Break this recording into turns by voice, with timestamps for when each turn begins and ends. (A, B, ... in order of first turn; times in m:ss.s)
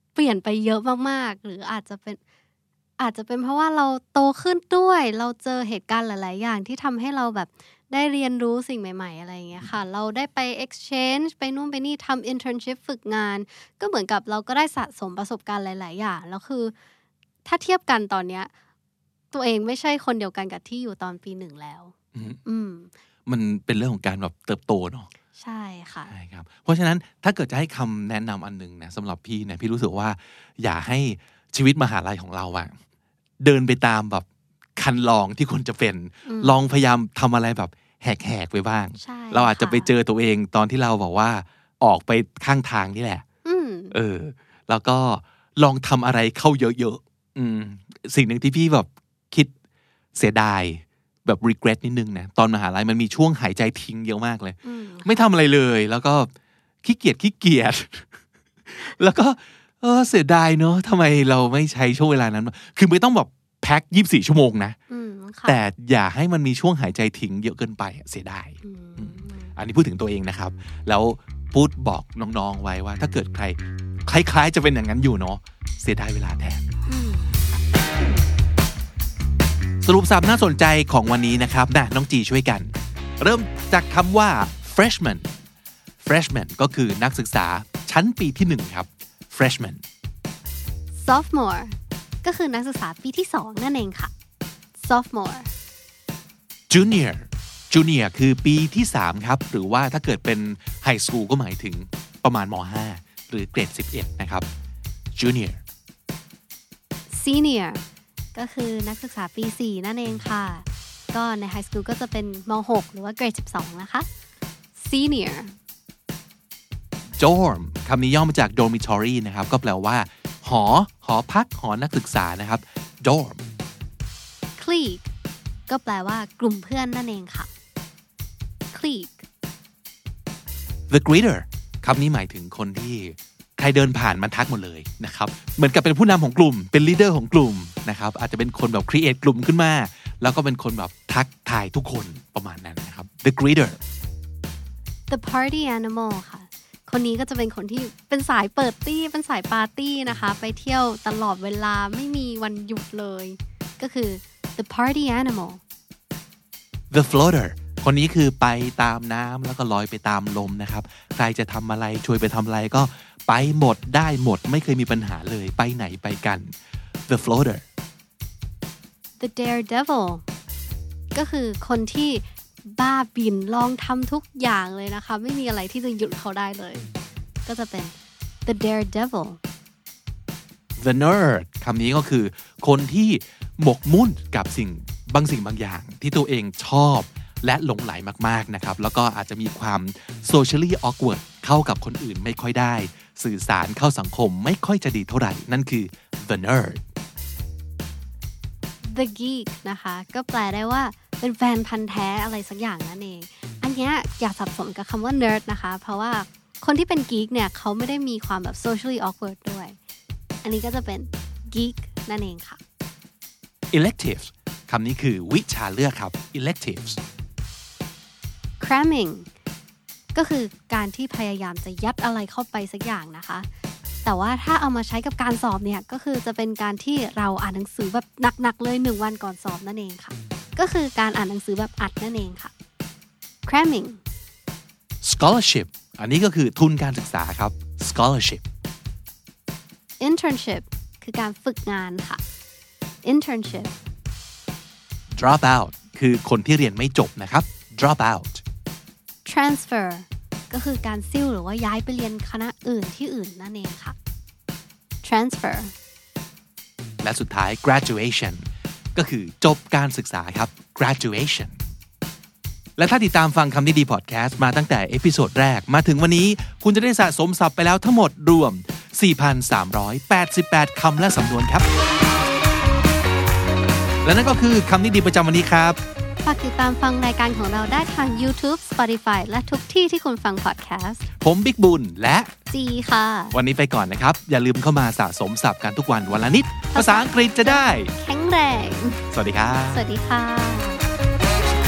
0:00.2-0:02.2 A
0:03.0-0:16.7 A
0:17.4-0:18.5 A
0:19.3-0:21.9 A
0:22.1-0:22.4 B
0:22.4-0:22.9 A
0:23.3-0:25.1 B
0:25.4-0:26.1 A
0:26.1-0:32.7 B
0:33.4-0:43.2 B
0:36.3-0:36.6 A
0:39.0-0:39.9 A
0:43.4-0:44.0 A
0:43.9-0:49.5 B
0:50.2-0:56.3 B
0:54.6-0:55.2 A
0:56.8-0:58.1 B
0:58.7-1:04.8 B
1:04.9-1:05.6 A
1:05.4-1:16.7 B
1:08.6-1:09.6 A
1:16.9-1:18.2 A
1:19.8-1:25.3 B
1:26.0-1:29.8 B
1:31.0-1:34.1 A
1:34.8-1:35.5 A
1:36.7-1:44.5 B
1:45.2-1:45.6 B
1:47.1-1:47.8 A
1:48.4-1:54.1 A
1:54.8-1:55.5 A
1:57.2-2:03.4 B
2:04.6-2:05.1 A
2:05.7-2:07.5 A
2:08.7-2:09.2 A
2:10.9-2:23.8 B
2:25.1-2:35.6 A
2:36.9-2:46.5 B
2:47.1-2:47.6 B
2:49.2-2:50.2 A
2:51.1-2:56.9 A
2:57.5-2:57.9 A
2:58.5-2:59.4 A
3:00.8-3:16.8 B
3:18.8-3:29.8 A
3:30.4-3:32.6 A
3:33.7-3:37.0 B
3:38.6-3:39.3 A
3:40.2-3:43.5 A
3:44.0-3:52.5 A
3:53.5-3:54.0 A
3:55.0-3:58.4 B
4:00.0-4:02.2 A
4:03.0-4:03.7 A
4:05.1-4:08.4 B
4:09.2-4:14.0 A
4:15.0-4:15.7 A
4:17.0-4:21.6 B
4:22.8-4:31.7 B
4:34.0-4:35.8 B
4:36.2-4:41.1 A
4:41.2-4:42.3 B
4:42.5-4:43.4 A
4:43.3-4:47.9 B
4:46.7-4:49.0 A
4:49.1-4:49.8 B
4:49.7-4:50.8 A